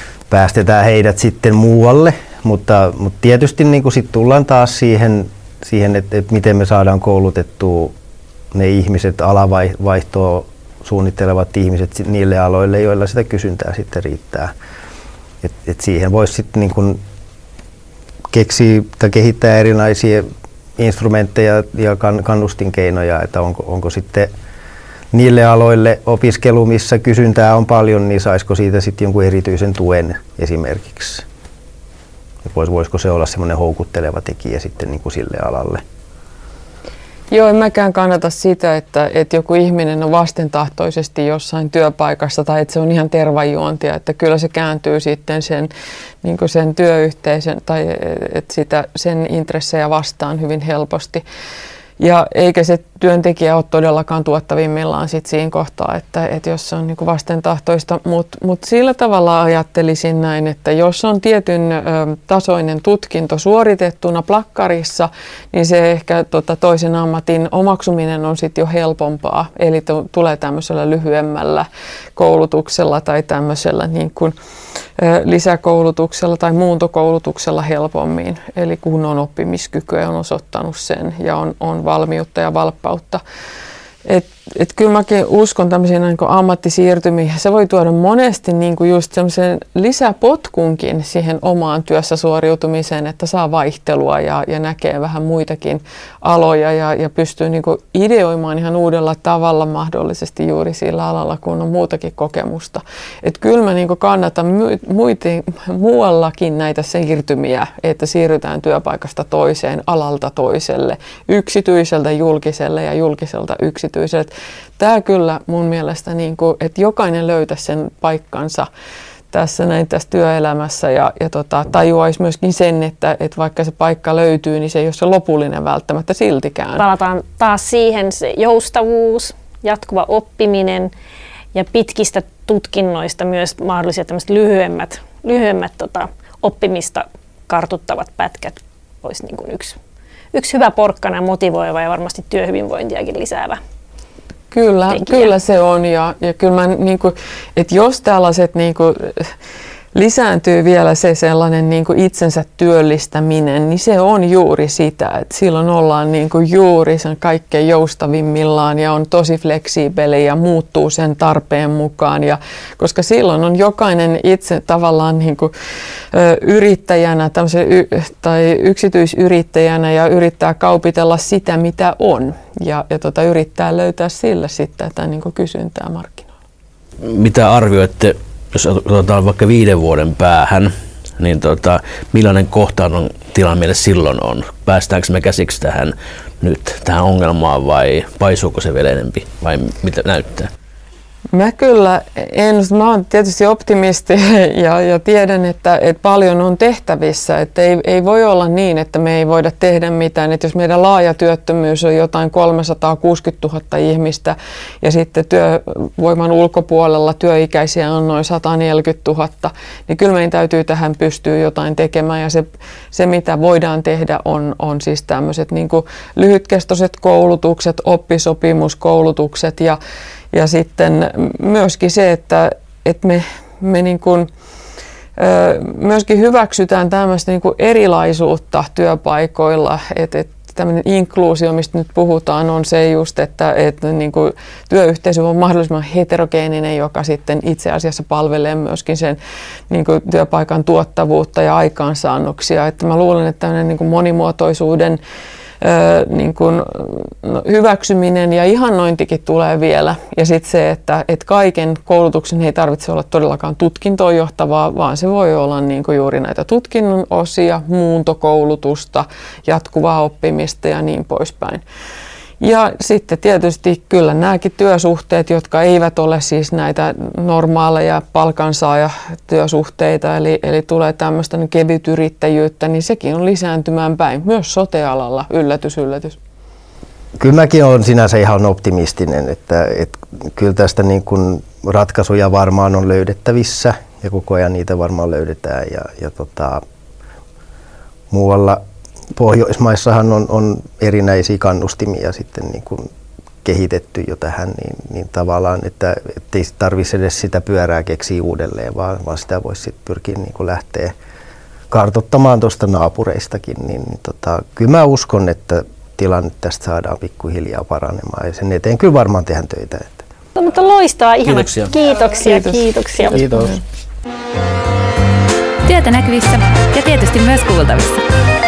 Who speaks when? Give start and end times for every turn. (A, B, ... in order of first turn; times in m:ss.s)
0:00.3-0:07.9 A
0:08.5-0:14.5 A
0:15.4-0:17.0 A
0:18.3-0:24.3 A
0:25.1-0:31.2 A
0:32.4-0:35.8 A
0:37.3-0:45.7 B
0:46.2-0:51.2 B
0:52.0-1:14.3 B
1:15.0-1:23.2 B
1:24.0-1:58.7 B
1:59.3-2:06.8 B
2:06.8-2:10.9 C
2:11.5-2:19.8 C
2:20.3-2:23.6 C
2:24.5-2:29.3 B
2:24.9-2:25.2 C
2:29.9-2:45.5 B
2:46.1-2:56.3 B
2:57.0-3:10.5 D
3:11.3-3:39.8 B
3:40.3-3:44.3 B
3:45.2-3:59.2 B
3:59.7-4:05.0 B
4:05.6-4:21.6 B
4:22.4-4:36.2 B
4:37.2-4:46.6 A
4:48.1-4:48.6 A
4:49.1-4:52.9 A
4:53.4-5:00.9 A
5:01.7-5:10.0 A
5:10.4-5:13.4 C
5:11.2-5:11.7 D
5:12.2-5:13.6 B
5:15.6-5:18.0 E